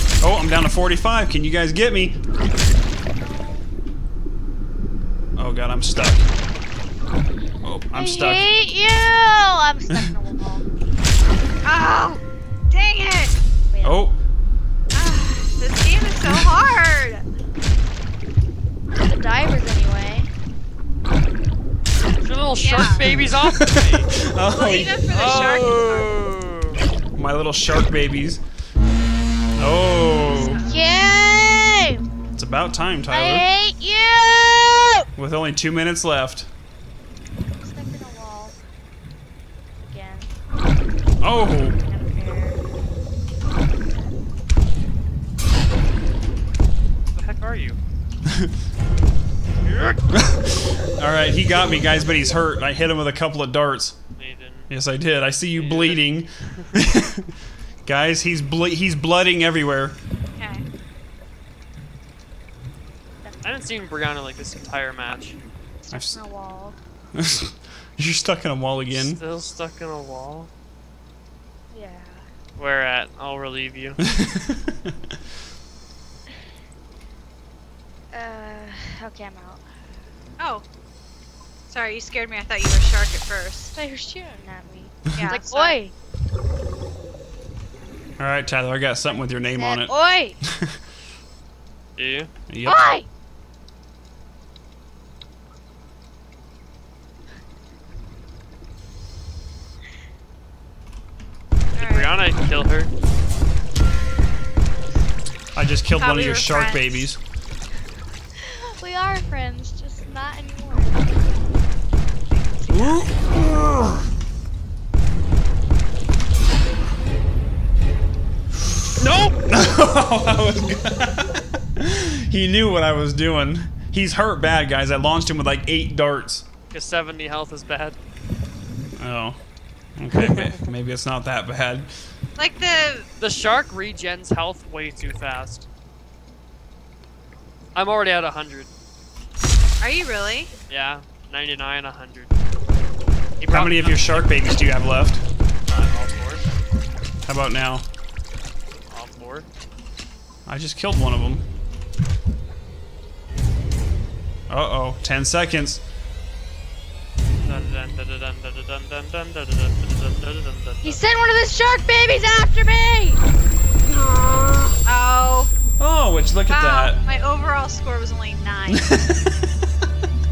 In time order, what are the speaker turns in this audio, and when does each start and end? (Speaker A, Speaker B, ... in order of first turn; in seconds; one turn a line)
Speaker A: 0.2-2.2
Speaker B: 3.2-3.7
Speaker A: 5.4-6.3
Speaker A: 7.6-8.5
Speaker B: 7.9-10.6
Speaker C: 11.6-13.4
Speaker B: 13.7-14.0
Speaker A: 13.8-14.2
Speaker C: 14.9-17.2
Speaker B: 19.0-20.3
Speaker D: 22.2-24.3
Speaker C: 22.6-23.1
Speaker A: 23.0-25.0
Speaker C: 24.5-26.1
Speaker D: 25.1-26.8
Speaker A: 27.2-28.4
Speaker A: 29.6-30.6
Speaker C: 30.2-30.8
Speaker B: 30.3-32.0
Speaker A: 32.4-33.5
Speaker B: 33.1-35.0
Speaker A: 35.2-36.5
Speaker B: 37.6-38.6
Speaker B: 39.9-40.3
Speaker A: 41.2-41.8
Speaker B: 41.7-42.6
Speaker D: 47.1-47.8
Speaker D: 49.6-50.0
Speaker A: 50.1-54.0
Speaker D: 54.2-54.7
Speaker A: 54.7-57.3
Speaker D: 55.5-56.8
Speaker A: 57.9-60.0
Speaker C: 60.4-60.7
Speaker D: 63.4-65.4
Speaker B: 65.8-66.8
Speaker A: 65.9-66.2
Speaker A: 67.1-69.2
Speaker D: 68.9-70.5
Speaker B: 71.7-72.3
Speaker D: 72.6-74.0
Speaker A: 74.0-74.9
Speaker B: 78.1-79.6
Speaker C: 80.4-80.7
Speaker C: 81.7-83.7
Speaker B: 83.8-85.9
Speaker C: 85.2-85.8
Speaker A: 88.2-89.9
Speaker B: 89.4-90.4
Speaker A: 90.5-90.8
Speaker D: 92.0-92.3
Speaker A: 92.5-92.9
Speaker B: 92.7-93.1
Speaker C: 101.8-102.2
Speaker D: 101.8-102.9
Speaker A: 105.5-107.2
Speaker C: 106.0-107.1
Speaker B: 108.4-111.2
Speaker C: 112.3-113.3
Speaker A: 112.7-114.0
Speaker A: 119.0-126.5
Speaker D: 126.7-128.0
Speaker A: 129.0-129.4
Speaker A: 130.0-131.9
Speaker D: 130.2-130.6
Speaker C: 132.4-133.1
Speaker D: 133.2-135.7
Speaker D: 137.8-138.7
Speaker C: 139.8-140.5
Speaker D: 140.7-142.3
Speaker D: 143.4-144.3
Speaker A: 143.5-145.2
Speaker D: 145.7-146.4
Speaker A: 147.3-147.9
Speaker D: 148.9-149.5
Speaker A: 150.5-151.5
Speaker A: 154.5-155.8
Speaker D: 157.4-161.0
Speaker B: 160.8-163.2
Speaker A: 164.1-164.5
Speaker C: 164.8-165.5
Speaker A: 165.8-167.0
Speaker C: 166.5-168.9
Speaker A: 168.7-169.8